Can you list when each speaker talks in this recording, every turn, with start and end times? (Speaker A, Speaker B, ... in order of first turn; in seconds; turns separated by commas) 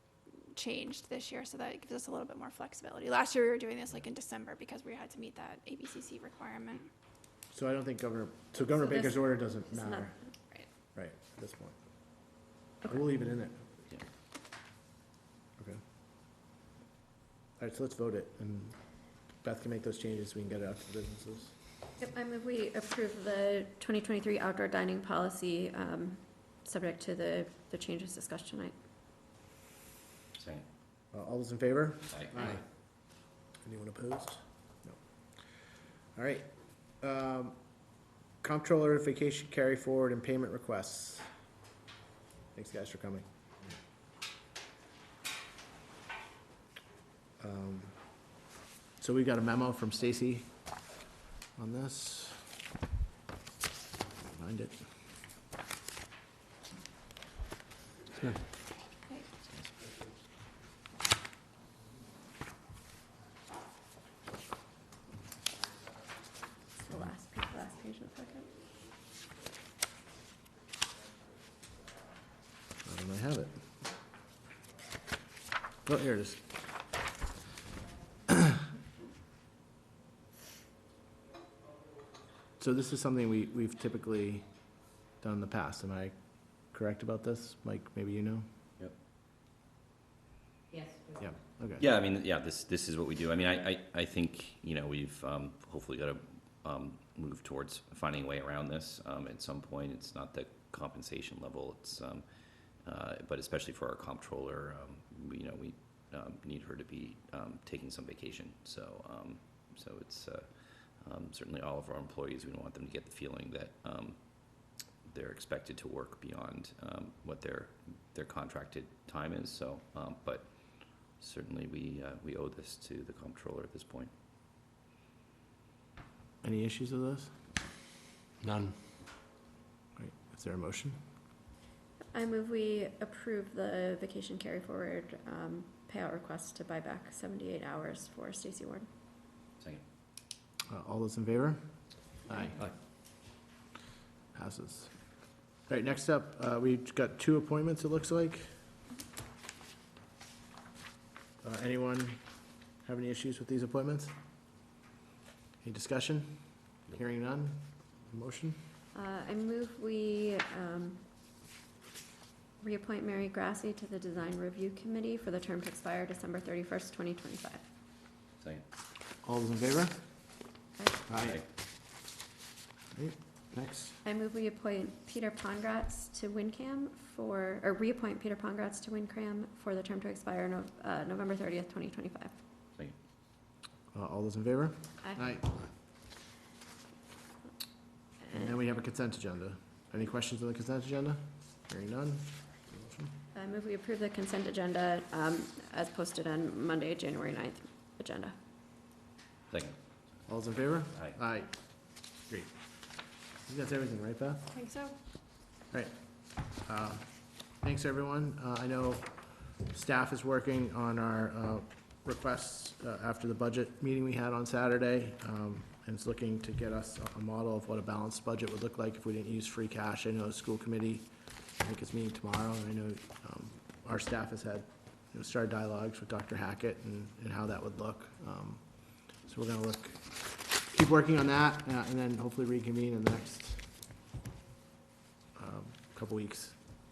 Speaker A: 0.6-6.9, Speaker B: 7.5-10.2, Speaker C: 8.9-10.7, Speaker B: 10.9-11.8, Speaker B: 12.8-13.7, Speaker B: 17.6-18.8, Speaker B: 19.4-21.5, Speaker C: 22.0-28.7, Speaker D: 30.4-30.6, Speaker B: 31.1-32.6, Speaker D: 32.1-32.6, Speaker B: 33.6-35.0, Speaker B: 36.2-36.5, Speaker B: 37.0-37.6, Speaker B: 38.4-41.3, Speaker B: 42.5-43.2, Speaker B: 47.4-47.9, Speaker B: 49.0-50.5, Speaker B: 51.6-52.4, Speaker B: 54.3-54.8, Speaker C: 66.8-68.5, Speaker B: 72.8-73.5, Speaker B: 75.8-76.4, Speaker B: 82.6-84.5, Speaker B: 85.2-86.1, Speaker B: 86.7-88.5, Speaker B: 91.2-91.8, Speaker D: 91.8-102.2, Speaker D: 102.8-124.1, Speaker B: 126.4-127.3, Speaker B: 128.4-128.7, Speaker B: 130.0-131.0, Speaker C: 132.1-138.9, Speaker B: 140.7-141.6, Speaker B: 142.3-142.7, Speaker B: 144.3-144.9, Speaker B: 145.7-148.5, Speaker B: 151.4-152.2, Speaker B: 152.8-154.1, Speaker B: 155.6-156.3, Speaker B: 156.9-158.6, Speaker C: 158.9-161.1, Speaker C: 162.6-167.6, Speaker D: 168.4-168.7, Speaker B: 169.2-170.0, Speaker B: 171.1-171.4, Speaker D: 171.2-171.4, Speaker B: 172.9-174.0, Speaker C: 174.0-182.3, Speaker B: 183.9-185.6, Speaker B: 188.3-193.1, Speaker C: 193.3-198.4, Speaker D: 199.5-199.8, Speaker B: 200.3-201.5, Speaker B: 203.5-204.6, Speaker A: 204.6-204.9, Speaker B: 206.6-207.1, Speaker B: 207.6-209.1, Speaker B: 209.7-221.1, Speaker B: 221.6-233.7, Speaker B: 235.3-236.6